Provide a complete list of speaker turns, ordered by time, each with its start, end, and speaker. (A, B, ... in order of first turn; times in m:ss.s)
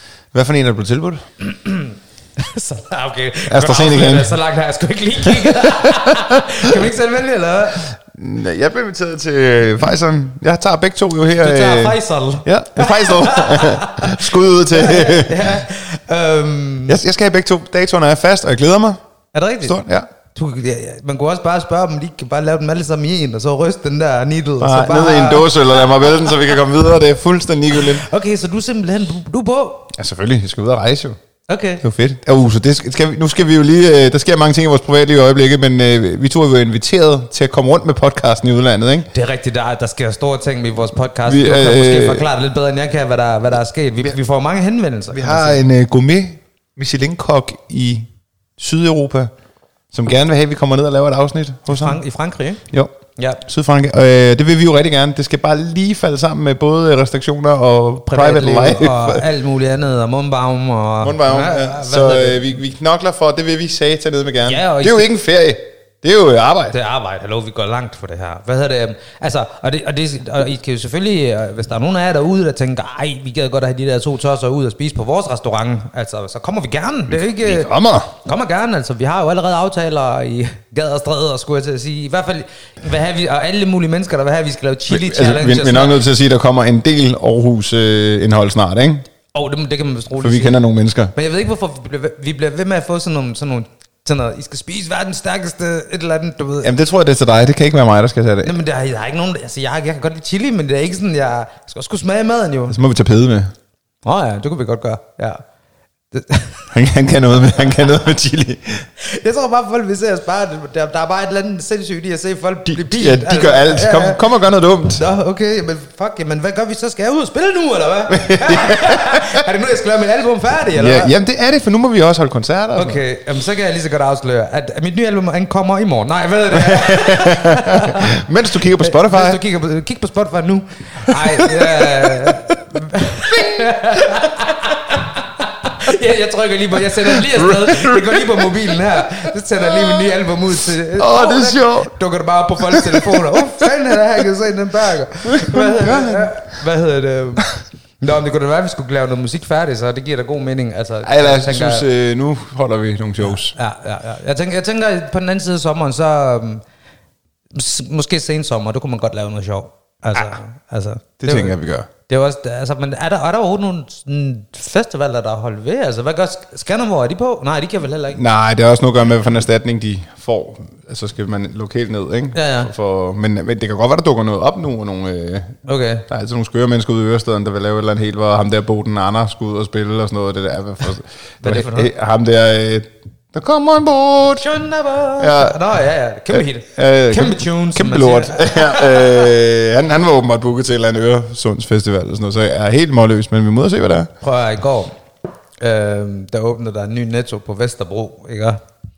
0:00.3-0:01.2 A
0:01.4-0:07.9 B
0:03.5-0:04.3 A
0:05.2-0:06.9 A
0:07.8-0:15.6 A
0:11.4-0:17.0 B
0:16.9-0:19.0 A
0:19.3-0:19.8 B
0:19.6-0:20.0 A
0:20.3-0:26.4 B
0:24.6-0:28.0 A
0:27.7-0:29.9 B
0:29.9-0:31.2 A
0:31.5-0:31.8 B
0:31.8-0:39.1 A
0:39.1-0:45.6 B
0:41.2-0:42.3 A
0:45.1-0:49.3 A
0:49.9-0:52.0 A
0:51.7-0:52.6 B
0:52.7-0:59.2 A
0:53.2-0:53.4 B
0:58.1-1:02.5 B
1:01.0-1:06.7 A
1:04.4-1:05.1 B
1:06.7-1:26.0 B
1:17.1-1:18.1 A
1:24.9-1:29.1 A
1:29.3-1:30.6 B
1:30.2-1:31.1 A
1:31.1-1:36.7 B
1:36.6-1:38.6 A
1:38.4-1:42.8 B
1:42.7-1:43.5 A
1:44.0-1:45.4 B
1:46.1-1:46.7 B
1:46.7-1:48.9 A
1:49.0-1:54.2 B
1:52.7-1:55.0 A
1:54.9-2:01.1 B
1:58.1-1:59.4 A
2:00.7-2:03.0 A
2:02.7-2:08.1 B
2:06.5-2:09.4 A
2:08.8-2:31.8 B
2:11.1-2:12.4 A
2:13.3-2:14.5 A
2:16.9-2:20.1 A
2:20.9-2:21.9 A
2:22.7-2:23.7 A
2:25.3-2:26.4 A
2:31.0-2:33.5 A
2:33.2-2:36.6 B
2:37.5-2:41.6 B
2:41.2-2:41.9 A
2:42.1-2:48.2 B
2:48.2-2:55.6 A
2:52.3-2:52.7 B
2:55.6-2:56.0 B
2:56.1-3:04.4 A
3:01.4-3:01.9 B
3:04.4-3:09.3 B
3:05.2-3:05.6 A
3:06.3-3:14.1 A
3:14.2-3:14.9 B
3:15.6-3:18.6 B